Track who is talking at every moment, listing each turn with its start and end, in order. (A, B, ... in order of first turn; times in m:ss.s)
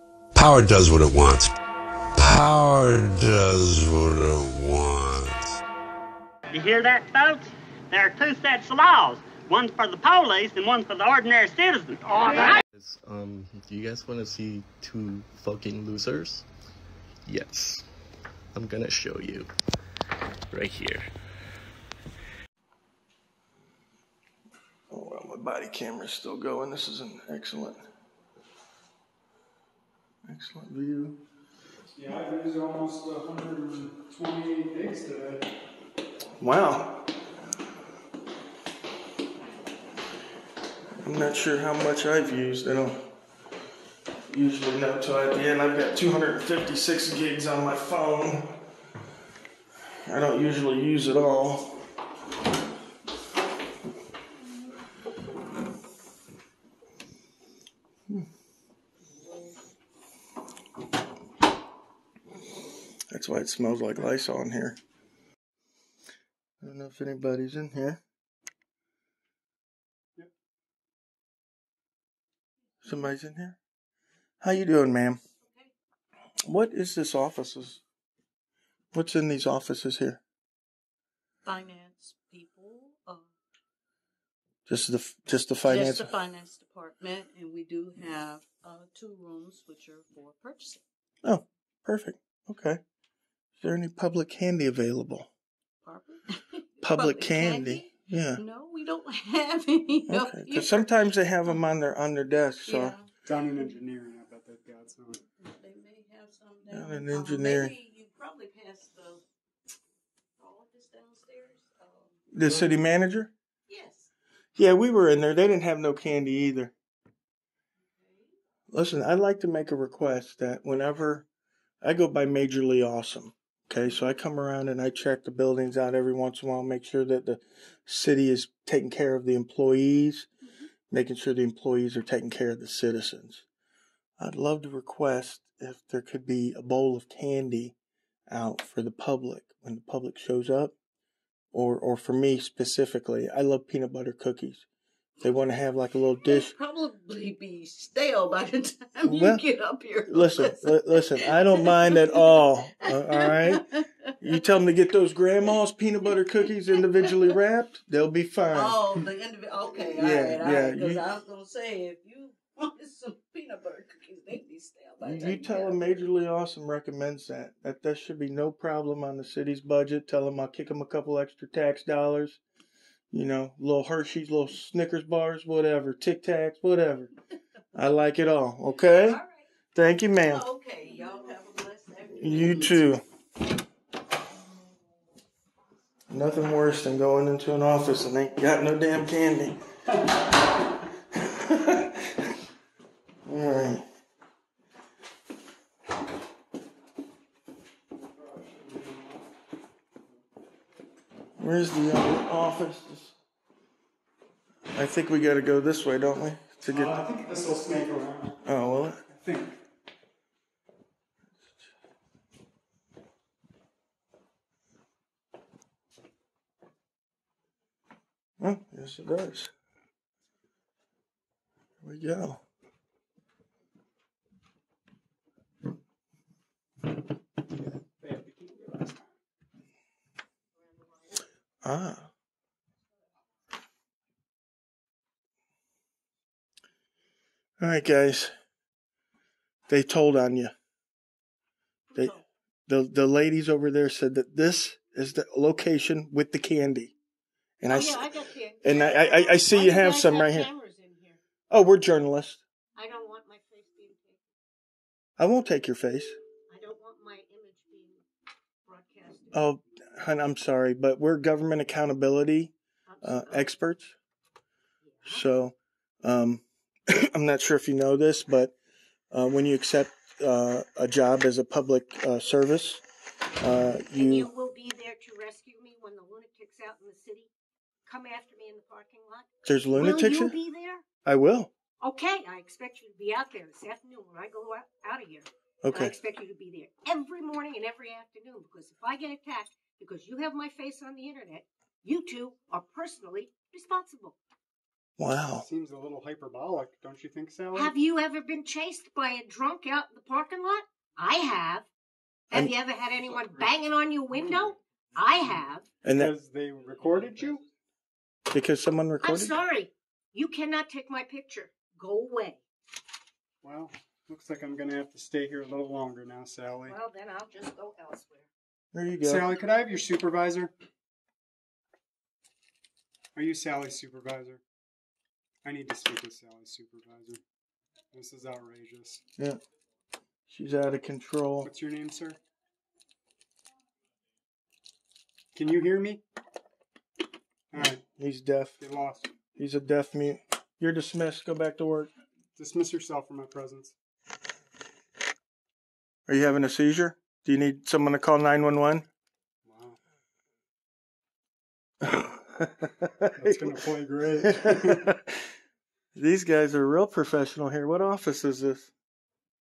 0:00.4-0:01.5 A
0:02.2-0:05.4 A
0:06.6-0:12.6 B
0:12.7-0:16.5 C
0:17.3-0:17.8 C
0:18.5-0:19.5 C
0:20.5-0:21.1 C
0:24.9-0:27.8 D
0:30.3-0:31.2 D
0:31.9-0:35.4 E
0:36.4-0:37.1 D
0:41.0-0:43.0 D
0:44.3-0:48.6 D
0:50.0-0:51.8 D
1:03.1-1:04.8 D
1:06.6-1:08.0 D
1:12.8-1:13.6 D
1:14.4-1:15.2 D
1:15.4-1:15.7 F
1:16.5-1:17.8 D
1:18.9-1:20.2 D
1:21.4-1:23.3 F
1:24.7-1:26.2 D
1:25.6-1:30.8 F
1:31.2-1:32.8 D
1:33.6-1:35.3 D
1:35.8-1:40.9 F
1:36.8-1:38.4 D
1:40.1-1:43.0 D
1:42.6-1:43.1 F
1:43.3-1:45.2 E
1:45.4-1:49.2 F
1:46.7-1:47.7 D
1:50.4-1:52.2 F
1:52.3-1:53.3 D
1:53.7-1:54.1 F
1:54.6-1:56.7 D
1:58.0-1:58.3 F
1:58.7-2:01.3 D
2:01.8-2:10.3 D
2:10.9-2:13.5 D
2:14.2-2:17.8 D
2:18.3-2:20.8 D
2:21.5-2:24.7 D
2:25.2-2:26.6 D
2:26.3-2:33.9 F
2:29.0-2:29.4 D
2:30.1-2:33.6 D
2:34.2-2:38.8 D
2:38.5-2:45.9 F
2:39.7-2:41.1 D
2:45.0-2:52.4 D
2:53.1-2:57.1 D
2:57.7-2:59.2 D
2:58.8-2:59.4 F
2:59.8-3:00.4 D
3:00.2-3:02.9 F
3:02.1-3:03.0 D
3:06.1-3:09.6 D
3:11.2-3:12.1 D
3:13.3-3:13.9 D
3:18.1-3:19.3 E
3:21.4-3:23.2 D
3:24.7-3:27.0 D
3:26.6-3:28.4 E
3:28.4-3:29.0 D
3:29.1-3:29.6 E
3:31.4-3:31.7 D
3:38.4-3:39.5 D
3:41.8-3:42.4 D
3:48.0-3:49.2 E
3:51.6-3:52.1 D
3:57.6-3:58.3 D
3:59.7-4:00.5 D
4:02.0-4:06.9 D
4:07.6-4:10.5 D
4:07.7-4:11.2 G
4:11.5-4:12.4 D
4:12.8-4:14.2 G
4:15.2-4:16.2 D
4:16.5-4:18.0 G
4:18.7-4:19.4 G
4:19.3-4:24.0 D
4:22.9-4:23.5 G
4:24.8-4:25.3 G
4:25.0-4:28.6 D
4:29.1-4:32.8 D
4:33.4-4:34.3 D
4:34.0-4:37.3 G
4:37.8-4:40.8 G
4:39.4-4:40.4 D
4:41.0-4:41.5 D
4:41.8-4:54.2 G
4:45.6-4:46.0 D
4:55.0-4:55.5 D
4:55.3-4:57.7 E
4:57.5-5:01.7 G
5:02.3-5:05.7 G
5:02.8-5:03.6 C
5:04.1-5:05.4 C
5:05.8-5:06.1 D
5:05.9-5:07.4 E
5:06.8-5:07.4 C
5:08.3-5:09.4 D
5:09.0-5:12.4 G
5:13.4-5:16.8 E
5:16.6-5:18.3 G
5:18.7-5:19.3 D
5:19.0-5:20.5 E
5:23.2-5:24.4 E
5:25.4-5:27.2 E
5:27.9-5:29.0 E
5:30.3-5:31.5 D
5:31.4-5:32.2 E
5:35.3-5:36.0 E
5:37.5-5:37.8 E
5:37.6-5:38.6 D
5:38.6-5:39.1 E
5:39.4-5:41.9 D
5:42.4-5:43.8 E
5:46.1-5:48.9 D
5:49.4-5:49.8 E
5:51.8-5:53.6 D
5:53.1-5:54.9 E
5:54.2-5:55.2 D
5:56.0-5:58.7 D